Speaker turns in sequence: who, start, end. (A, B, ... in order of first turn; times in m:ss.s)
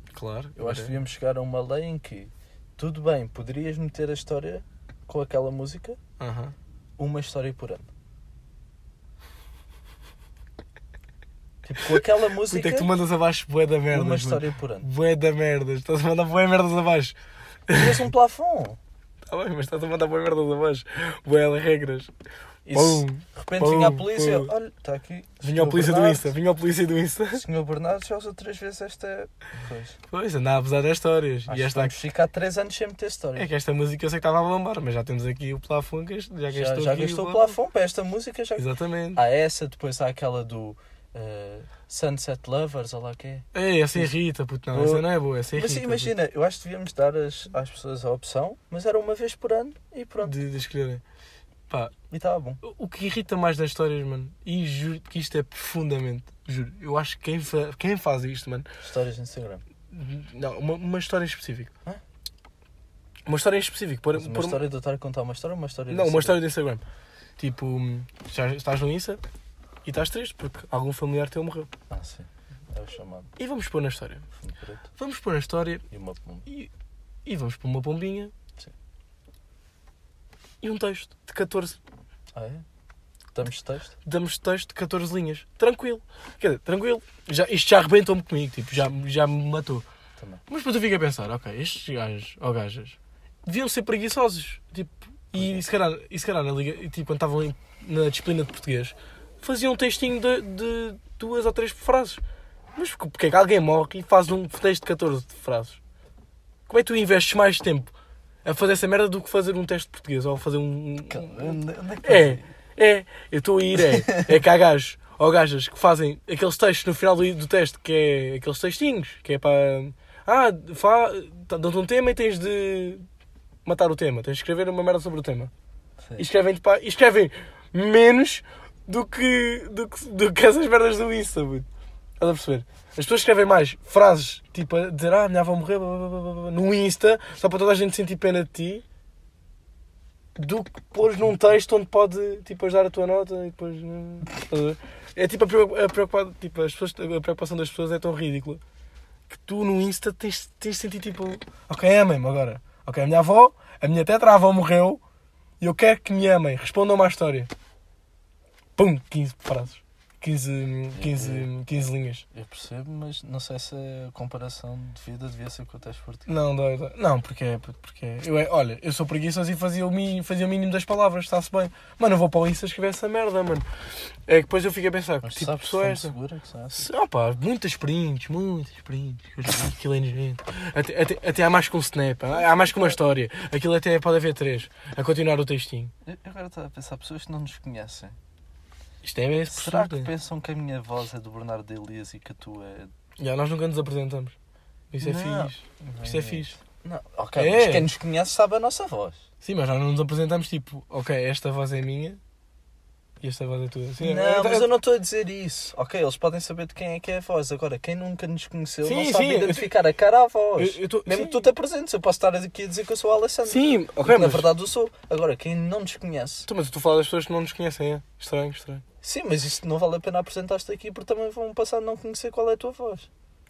0:00.1-0:01.0 A
0:00.6-0:06.0 B
0:06.2-0:06.6 A
0:07.0-0:07.9 B
0:11.7-0:12.9 B
0:11.8-0:17.2 A
0:13.9-0:14.9 B
0:17.7-0:18.1 A
0:17.7-0:18.8 B
0:19.3-0:22.1 A
0:22.7-0:26.3 B
0:22.7-0:24.5 A
0:25.4-0:27.4 A
0:27.3-0:30.0 B
0:30.1-0:32.0 A
0:31.5-0:33.5 B
0:33.4-0:37.6 A
0:36.5-0:44.1 B
0:38.6-0:39.2 A
0:43.5-0:46.1 A
0:44.7-0:50.4 B
0:50.2-0:51.0 A
0:52.1-0:52.6 B
0:52.6-0:58.7 A
0:58.8-0:59.6 B
0:59.9-1:01.7 A
1:03.3-1:04.6 A
1:04.1-1:06.4 B
1:05.9-1:06.8 A
1:07.4-1:09.2 A
1:09.8-1:11.7 A
1:11.9-1:13.3 B
1:13.4-1:14.3 A
1:14.4-1:14.9 B
1:15.0-1:15.8 A
1:15.9-1:16.5 B
1:17.2-1:18.3 A
1:20.6-1:21.8 A
1:22.3-1:22.6 B
1:23.3-1:24.0 B
1:24.0-1:29.8 A
1:30.5-1:42.2 A
1:42.8-1:45.8 A
1:46.7-1:47.9 A
1:48.4-2:03.1 A
1:51.1-1:52.5 B
1:53.8-1:54.3 B
2:03.6-2:05.5 A
2:06.2-2:11.7 A
2:12.2-2:18.8 A
2:20.4-2:28.6 A
2:29.3-2:35.0 A
2:35.6-2:37.5 A
2:38.8-2:42.2 A
2:40.9-2:41.5 B
2:42.3-2:46.3 B
2:46.3-2:53.7 A
2:54.3-2:56.1 A
2:55.2-2:56.9 B
2:56.7-3:05.9 A
3:02.4-3:03.0 B
3:06.0-3:08.2 B
3:09.0-3:10.1 A
3:09.5-3:12.9 B
3:13.2-3:14.4 A
3:14.9-3:16.6 A
3:15.0-3:19.3 B
3:17.4-3:17.9 A
3:19.4-3:22.2 A
3:23.2-3:24.7 A
3:24.0-3:36.5 B
3:28.8-3:29.7 A
3:30.6-3:31.5 A
3:33.5-3:34.5 A
3:36.5-3:38.8 A
3:39.0-3:43.1 B